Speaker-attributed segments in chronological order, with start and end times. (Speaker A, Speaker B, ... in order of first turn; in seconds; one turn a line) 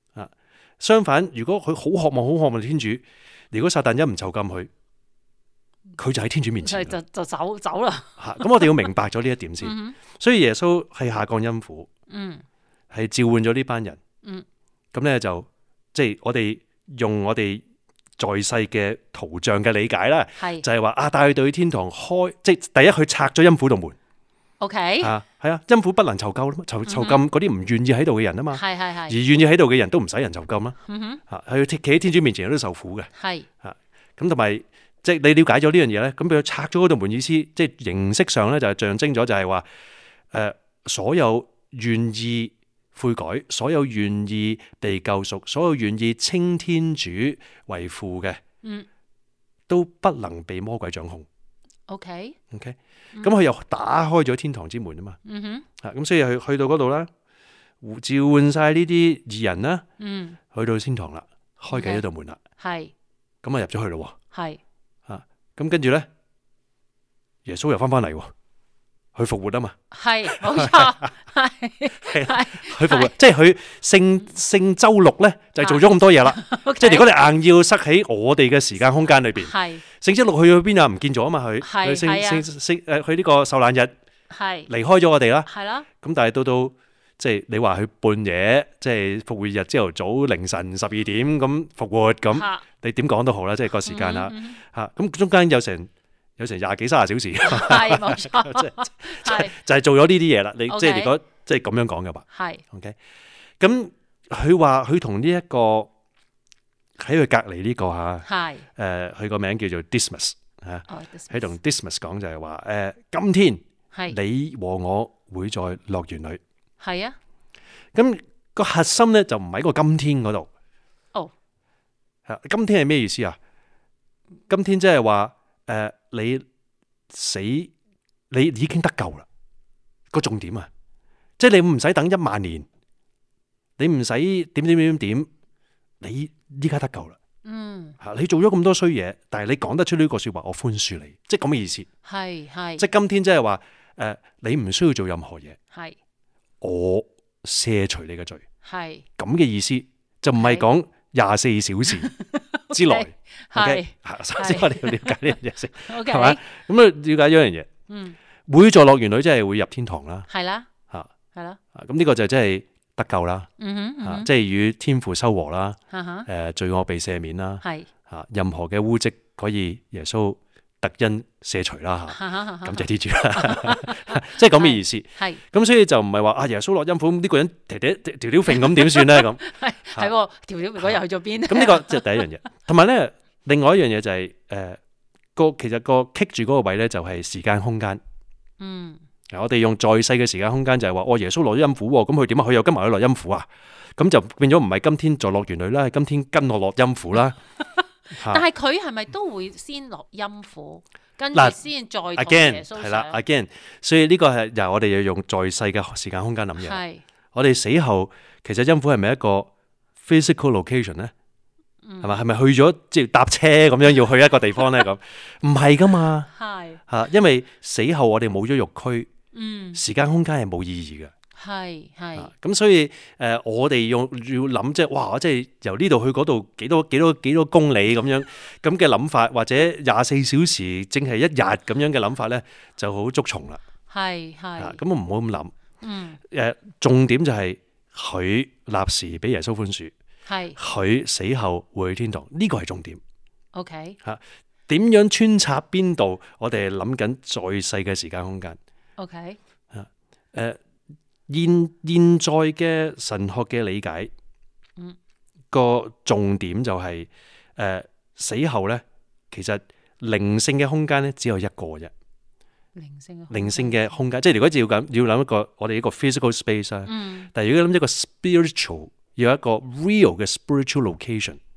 Speaker A: 0.1-4.7
Speaker A: 6.0-7.0
Speaker B: 6.6-8.9
Speaker A: 8.2-11.9
Speaker B: 9.6-10.0
Speaker B: 12.1-12.4
Speaker A: 12.9-14.0
Speaker A: 14.9-17.6
Speaker A: 18.2-24.0
Speaker B: 20.4-20.6
Speaker B: 24.6-25.1
Speaker A: 25.0-30.8
Speaker B: 26.9-27.2
Speaker B: 28.5-29.2
Speaker B: 30.9-31.2
Speaker A: 31.3-33.1
Speaker B: 33.1-33.5
Speaker A: 33.6-39.6
Speaker A: 40.3-48.4
Speaker A: 49.7-51.2
Speaker B: 51.9-52.4
Speaker A: 52.5-55.2
Speaker B: 55.2-55.6
Speaker A: 55.8-57.1
Speaker A: 57.8-59.8
Speaker B: 60.0-60.4
Speaker A: 60.5-62.4
Speaker B: 61.7-62.0
Speaker B: 62.6-62.9
Speaker A: 63.4-64.2
Speaker B: 64.3-64.6
Speaker A: 65.1-66.1
Speaker A: 67.4-68.3
Speaker A: 69.2-69.8
Speaker B: 69.9-73.1
Speaker A: 70.3-70.9
Speaker A: 72.0-83.9
Speaker B: 75.6-77.3
Speaker B: 79.3-79.8
Speaker B: 81.6-82.4
Speaker B: 84.3-84.7
Speaker A: 84.7-85.5
Speaker B: 85.5-85.9
Speaker A: 86.0-103.0
Speaker B: 92.3-92.6
Speaker B: 93.8-94.6
Speaker B: 97.4-99.5
Speaker B: 100.7-101.1
Speaker B: 102.3-102.6
Speaker A: 103.6-105.9
Speaker A: 107.0-116.4
Speaker B: 108.2-108.6
Speaker B: 110.9-111.5
Speaker B: 116.8-117.2
Speaker A: 117.9-120.5
Speaker A: 122.3-123.4
Speaker A: 124.5-126.4
Speaker A: 127.1-127.7
Speaker A: 128.3-129.2
Speaker A: 130.1-130.7
Speaker A: 131.4-132.7
Speaker A: 133.8-135.3
Speaker A: 136.0-137.2
Speaker B: 137.4-137.9
Speaker A: 138.0-141.9
Speaker B: 142.0-142.9
Speaker A: 142.8-145.6
Speaker B: 145.7-146.0
Speaker A: 146.6-148.4
Speaker B: 148.6-149.0
Speaker A: 149.2-152.1
Speaker B: 150.3-150.6
Speaker B: 152.0-156.4
Speaker A: 152.7-157.7
Speaker B: 157.9-158.2
Speaker A: 158.5-160.3
Speaker B: 160.3-160.7
Speaker B: 161.3-161.6
Speaker A: 161.7-163.5
Speaker B: 163.6-164.3
Speaker A: 164.0-179.4
Speaker B: 165.9-166.3
Speaker B: 167.6-167.9
Speaker B: 172.1-175.4
Speaker B: 178.5-182.2
Speaker A: 180.8-184.8
Speaker A: 185.3-188.0
Speaker B: 188.6-189.0
Speaker A: 189.3-197.4
Speaker B: 197.8-203.2
Speaker A: 198.1-198.4
Speaker A: 201.3-201.6
Speaker A: 202.2-206.8
Speaker B: 206.6-207.0
Speaker A: 207.3-209.5
Speaker A: 210.0-211.1
Speaker B: 211.8-212.2
Speaker A: 212.0-216.3
Speaker B: 216.3-216.8
Speaker A: 216.9-219.1
Speaker B: 219.3-219.8
Speaker A: 219.8-221.1
Speaker B: 221.3-222.3
Speaker A: 222.2-233.6
Speaker B: 233.9-234.8
Speaker A: 234.6-235.5
Speaker B: 235.8-236.2
Speaker A: 236.3-239.9
Speaker B: 240.3-240.6
Speaker A: 240.6-243.0
Speaker B: 243.5-244.0
Speaker A: 244.0-248.6
Speaker B: 249.0-249.4
Speaker A: 249.7-250.6
Speaker A: 251.3-254.1
Speaker A: 255.5-261.9
Speaker B: 262.7-263.9
Speaker A: 263.3-271.4
Speaker B: 266.9-267.3